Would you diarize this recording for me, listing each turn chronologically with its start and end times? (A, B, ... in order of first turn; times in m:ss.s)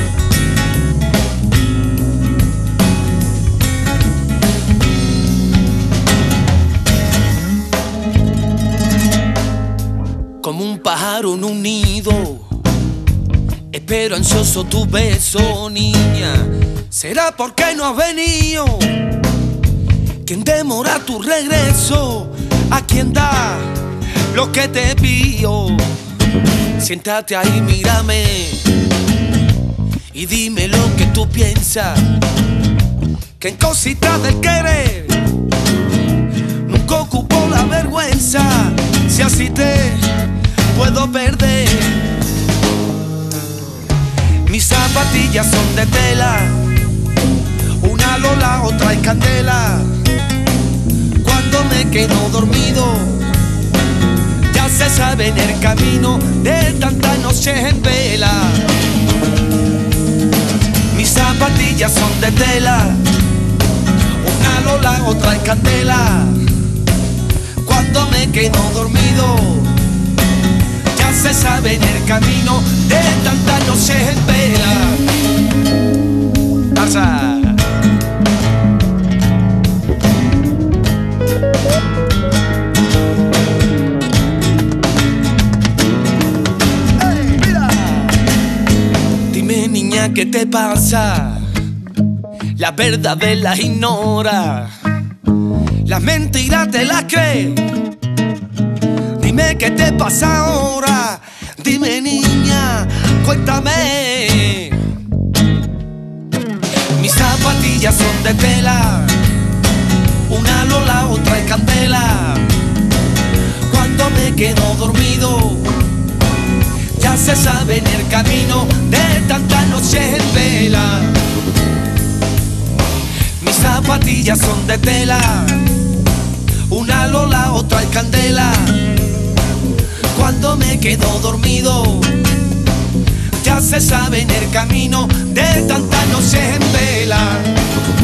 0:10.4-0:12.6 A
0:13.7-0:19.1 A
0:20.2-0:26.0 A
0:26.8-0:28.7 A
0:30.1-0:32.2 A
0:33.4-0:35.3 A
0:36.6-0:40.1 A
0:40.7-0:42.1 A
0:44.4-0:46.8 A
0:47.8-0:50.0 A
0:51.2-0:53.3 A
0:54.5-0:58.7 A
1:00.9-1:03.1 A
1:04.2-1:06.5 A
1:07.6-1:09.8 A
1:10.9-1:15.1 A
1:16.7-1:17.7 A
1:27.2-1:28.1 A
1:29.3-1:31.5 A
1:32.5-1:34.9 A
1:35.8-1:37.8 A
1:39.1-1:44.9 A
1:46.9-1:49.3 A
1:50.3-1:52.6 A
1:53.6-1:55.8 A
1:56.9-2:01.3 A
2:03.4-2:05.7 A
2:06.7-2:08.9 A
2:10.1-2:12.2 A
2:13.3-2:17.6 A